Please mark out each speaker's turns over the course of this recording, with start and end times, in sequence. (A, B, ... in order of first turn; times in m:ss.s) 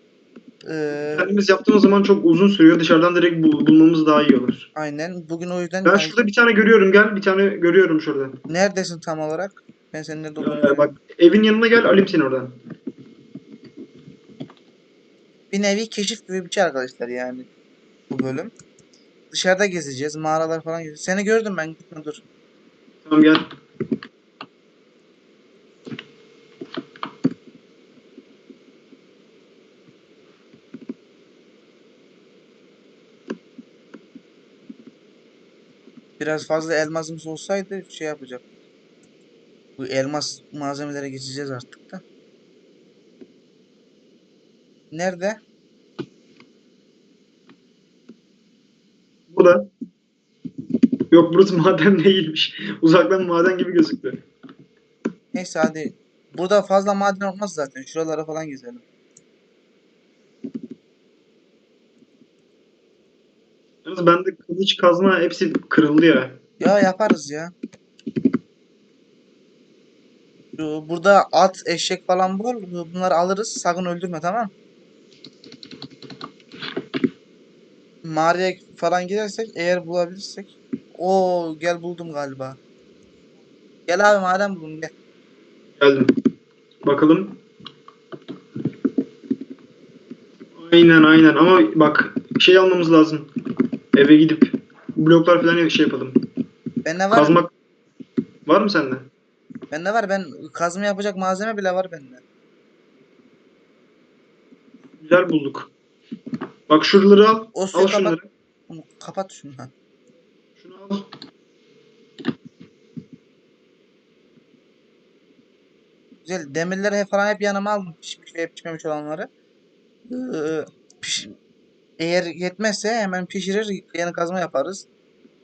0:00.6-0:01.3 A
0:00.9-0:04.7 B
0:04.8-0:06.3 A
0:05.8-0:08.4 B
0:08.5-0:10.9 A
0:10.4-0:12.6 B
0:15.5-0:17.5 A
0:18.1-0:18.5 A
0:19.3-0:22.2 A
0:23.0-0:23.5 B
0:36.2-0:38.5 A
0:39.8-0:42.0 A
0:44.9-0:45.4 A
0:49.3-0:49.7 B
0:51.1-0:54.2 B
0:55.3-0:58.8 A
1:03.8-1:06.4 B
1:06.6-1:07.5 A
1:10.6-1:14.5 A
1:18.0-1:22.6 A
1:23.9-1:24.9 A
1:25.8-1:26.1 B
1:26.8-1:27.4 B
1:30.6-1:33.3 B
1:33.9-1:36.2 B
1:36.8-1:37.4 A
1:37.1-1:37.5 B
1:38.5-1:39.1 B
1:39.7-1:42.2 A
1:45.0-1:45.7 B
1:46.7-1:48.3 B
1:47.5-1:48.2 A
1:48.7-1:49.7 A
1:50.6-1:51.1 B
1:56.2-1:59.3 A
2:00.1-2:01.4 A
2:02.0-2:04.9 A